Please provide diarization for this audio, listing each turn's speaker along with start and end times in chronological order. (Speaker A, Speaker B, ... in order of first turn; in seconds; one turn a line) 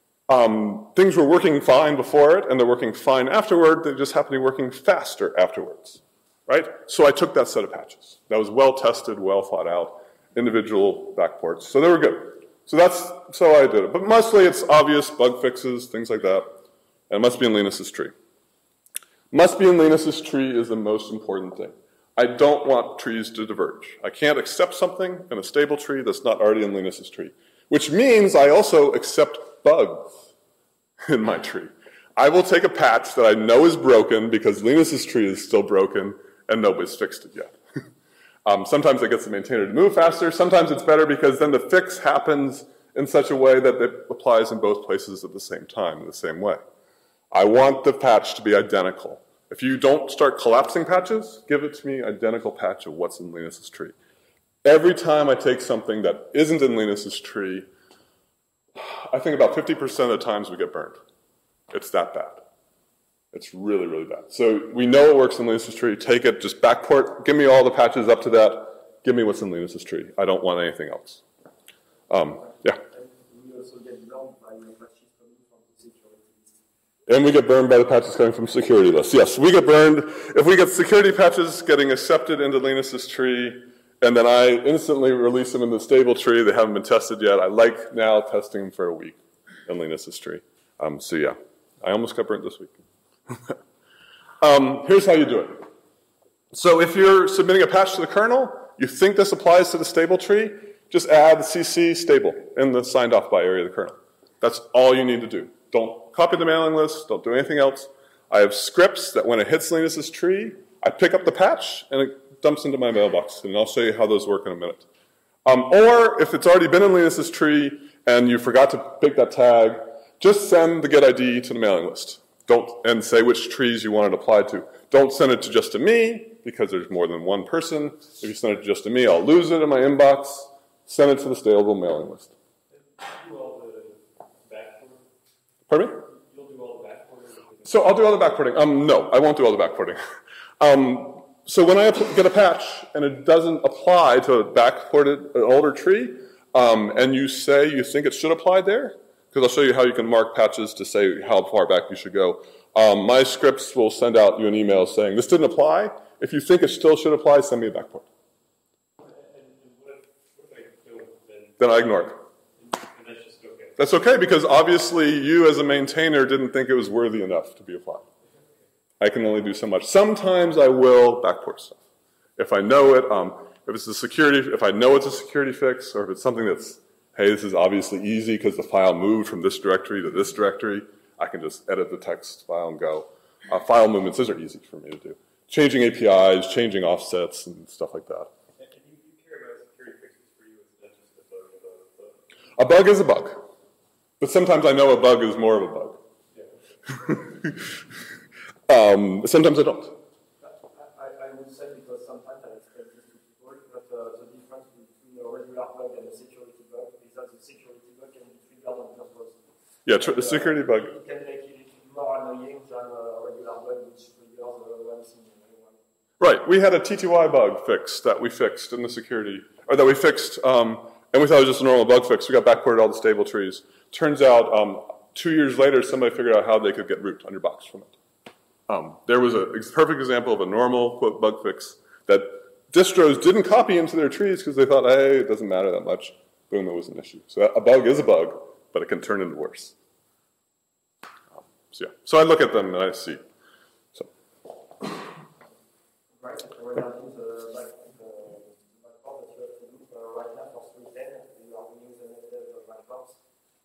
Speaker A: 0.3-16.6
Speaker A: 17.1-18.1
Speaker A: 19.3-30.3
Speaker A: 31.0-37.6
Speaker A: 38.5-46.6
Speaker A: 47.3-54.0
Speaker A: 54.6-57.7
Speaker A: 58.8-61.0
Speaker A: 61.7-62.4
Speaker A: 63.3-71.2
Speaker A: 72.1-72.8
Speaker B: 72.4-76.5
Speaker A: 77.1-92.8
Speaker A: 93.3-93.6
Speaker A: 94.4-95.7
Speaker A: 96.5-114.9
Speaker A: 115.5-132.3
Speaker C: 132.7-135.0
Speaker A: 135.7-136.1
Speaker C: 136.1-138.1
Speaker A: 137.7-140.0
Speaker A: 140.6-158.1
Speaker C: 159.0-161.7
Speaker A: 161.6-162.2
Speaker C: 162.6-163.8
Speaker A: 163.8-168.1
Speaker A: 169.0-171.8
Speaker A: 172.4-188.3
Speaker C: 188.6-192.2
Speaker A: 192.6-193.4
Speaker A: 194.2-196.0
Speaker A: 197.0-197.7
Speaker A: 198.7-200.0
Speaker B: 200.4-209.4
Speaker A: 209.8-210.9
Speaker B: 209.9-215.8
Speaker A: 216.2-228.0
Speaker A: 228.7-239.8
Speaker A: 241.7-243.2
Speaker B: 246.1-253.2